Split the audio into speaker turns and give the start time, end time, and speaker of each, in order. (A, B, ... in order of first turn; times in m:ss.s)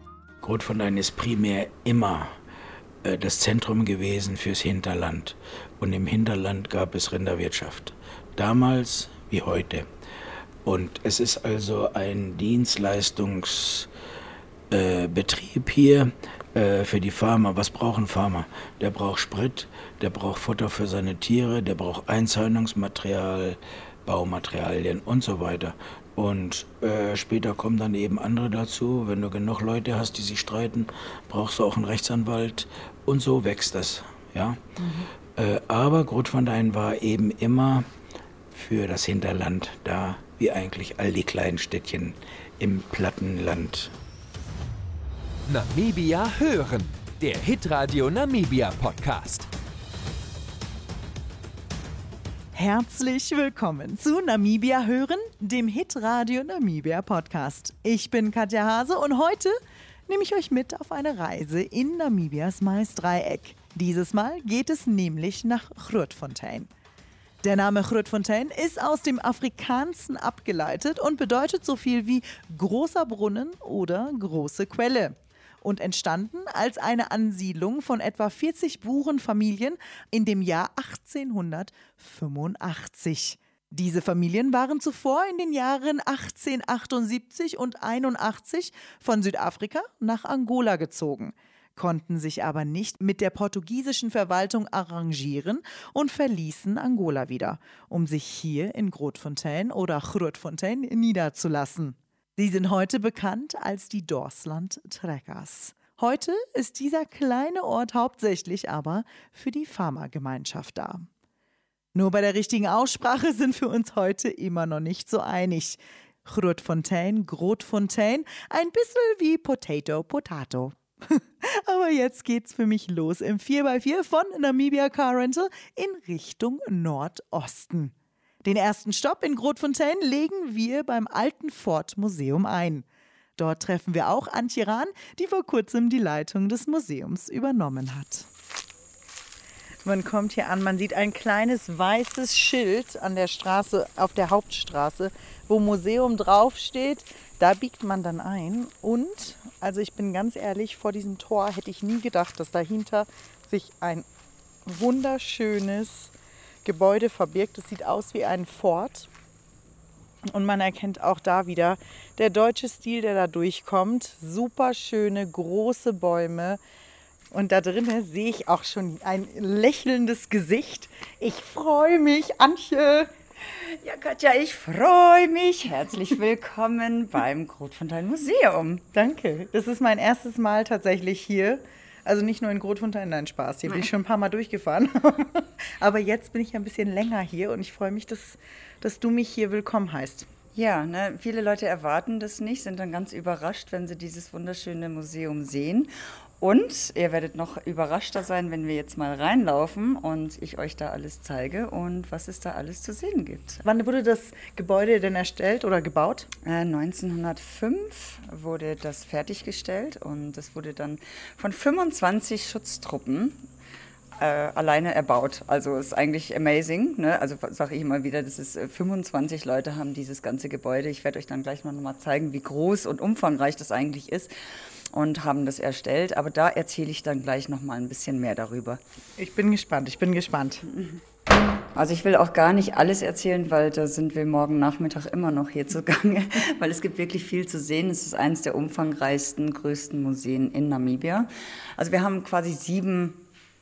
0:00.4-0:02.4 A
0:03.0-0:09.9 A
0:10.6-0:13.9 A
0:14.7-0:34.6 A
0:34.8-0:35.1 B
0:35.3-0:37.9 A
0:38.5-0:43.9 A
0:45.5-0:49.5 C
0:52.5-0:59.6 B
1:00.1-1:06.7 B
1:07.4-1:51.1 B
1:51.9-2:07.9 B
2:08.4-2:12.8 B
2:13.4-2:18.3 B
2:19.8-2:34.1 B
2:34.6-2:36.1 B
2:36.6-2:39.1 B
2:40.3-2:46.6 B
2:47.3-2:53.1 B
2:53.5-2:58.8 D
2:58.9-3:10.3 B
3:10.5-3:23.6 D
3:23.6-3:26.3 B
3:26.4-3:33.4 D
3:34.2-3:44.3 D
3:44.9-3:48.8 D
3:49.2-3:50.6 B
3:50.7-3:51.0 D
3:51.7-4:03.2 D